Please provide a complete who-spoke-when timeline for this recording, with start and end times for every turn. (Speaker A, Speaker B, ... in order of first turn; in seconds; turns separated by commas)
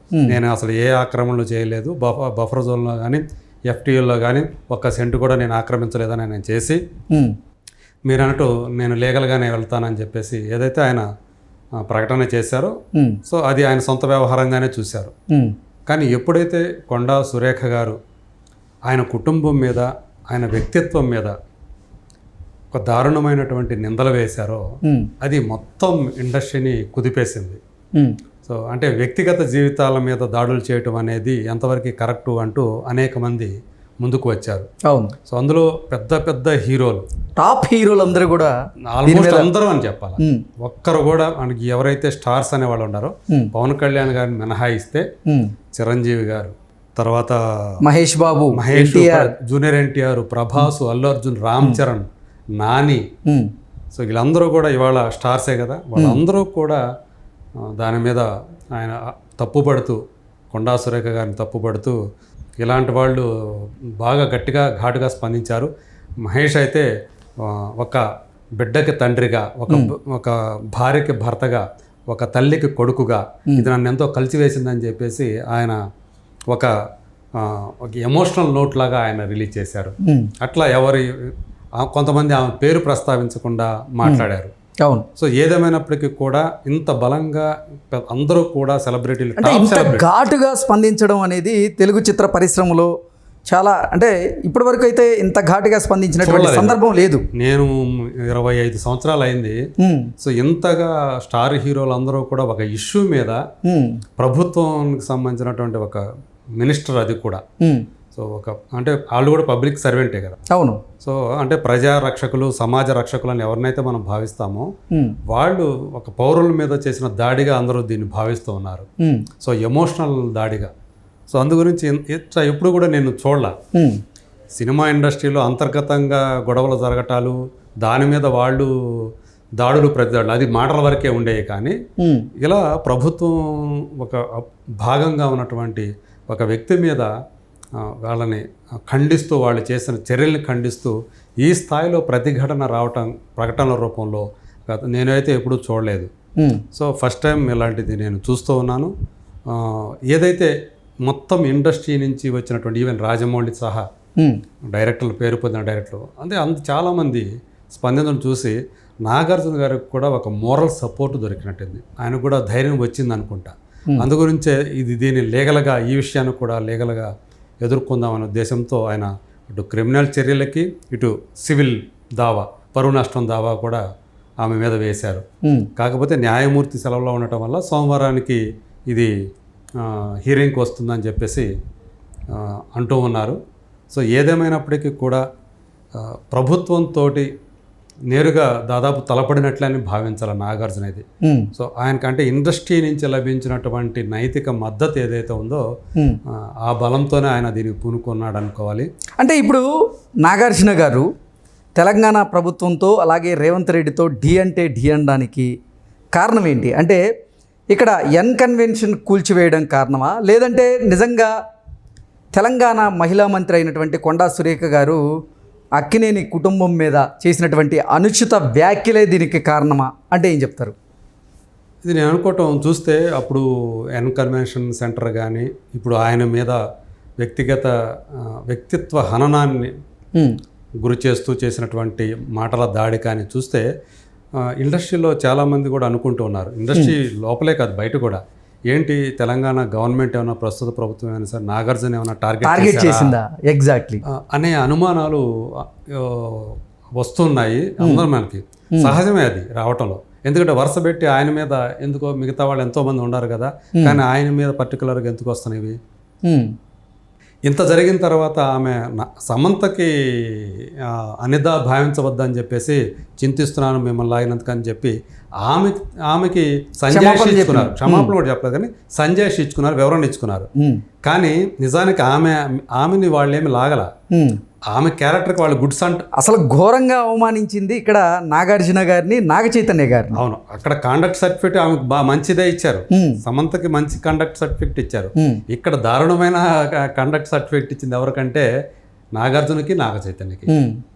Speaker A: 0.3-6.8, Speaker A: 8.1-11.1, Speaker A: 11.8-12.7, Speaker A: 13.2-15.1, Speaker A: 15.9-18.0, Speaker A: 18.9-21.3, Speaker A: 22.7-24.6, Speaker B: 24.8-25.1, Speaker A: 25.2-27.6, Speaker A: 28.4-34.7, Speaker B: 34.9-35.1, Speaker A: 35.3-37.0, Speaker B: 37.4-38.5, Speaker A: 38.9-45.0, Speaker B: 39.0-39.5, Speaker B: 40.2-40.4, Speaker B: 45.3-45.5, Speaker A: 45.7-47.8, Speaker B: 47.8-49.3, Speaker A: 48.5-52.1, Speaker A: 52.6-53.0, Speaker A: 53.9-56.8, Speaker B: 56.0-56.2, Speaker A: 57.8-60.0, Speaker A: 60.5-62.0, Speaker A: 62.6-65.7, Speaker A: 66.2-66.9, Speaker A: 67.4-68.0, Speaker A: 68.6-75.8, Speaker A: 77.3-81.0, Speaker B: 80.0-80.3, Speaker A: 81.8-84.5, Speaker A: 85.2-90.0, Speaker B: 89.4-92.9, Speaker B: 93.5-97.2, Speaker A: 96.2-96.8, Speaker A: 97.4-99.6, Speaker B: 99.8-100.1, Speaker A: 100.2-103.4, Speaker B: 103.6-104.0, Speaker A: 104.2-106.0, Speaker A: 106.6-107.4, Speaker B: 107.6-107.9, Speaker A: 108.1-110.4, Speaker B: 110.5-110.8, Speaker A: 111.0-114.7, Speaker B: 114.9-115.2, Speaker A: 115.3-118.8, Speaker B: 119.0-119.2, Speaker A: 119.4-120.7, Speaker A: 121.3-123.5, Speaker A: 124.5-131.8, Speaker B: 132.0-132.3, Speaker A: 132.4-137.1, Speaker A: 137.8-146.1, Speaker A: 146.7-148.9, Speaker A: 149.5-150.5, Speaker A: 151.0-153.8, Speaker A: 154.7-167.1, Speaker A: 167.6-173.8, Speaker A: 174.4-175.2, Speaker A: 175.8-179.1, Speaker A: 179.8-181.5, Speaker A: 182.3-183.4, Speaker A: 183.9-185.2, Speaker A: 185.9-187.3, Speaker A: 188.1-195.6, Speaker B: 191.2-191.5, Speaker A: 196.3-198.9, Speaker B: 199.2-199.6, Speaker B: 200.2-201.1, Speaker B: 201.8-205.5, Speaker B: 206.1-207.0, Speaker B: 207.7-211.3, Speaker B: 212.3-215.0, Speaker B: 215.8-220.7, Speaker A: 221.8-226.6, Speaker A: 227.2-229.7, Speaker A: 230.8-233.7, Speaker A: 234.4-243.1, Speaker B: 242.4-244.0, Speaker A: 244.1-255.8, Speaker B: 256.2-256.5, Speaker A: 257.4-270.5, Speaker B: 266.9-268.1, Speaker A: 271.0-273.9, Speaker B: 274.1-274.4, Speaker A: 274.7-276.1, Speaker B: 276.2-280.2, Speaker A: 280.1-288.5, Speaker B: 282.9-283.2, Speaker A: 289.1-290.5, Speaker B: 290.5-290.8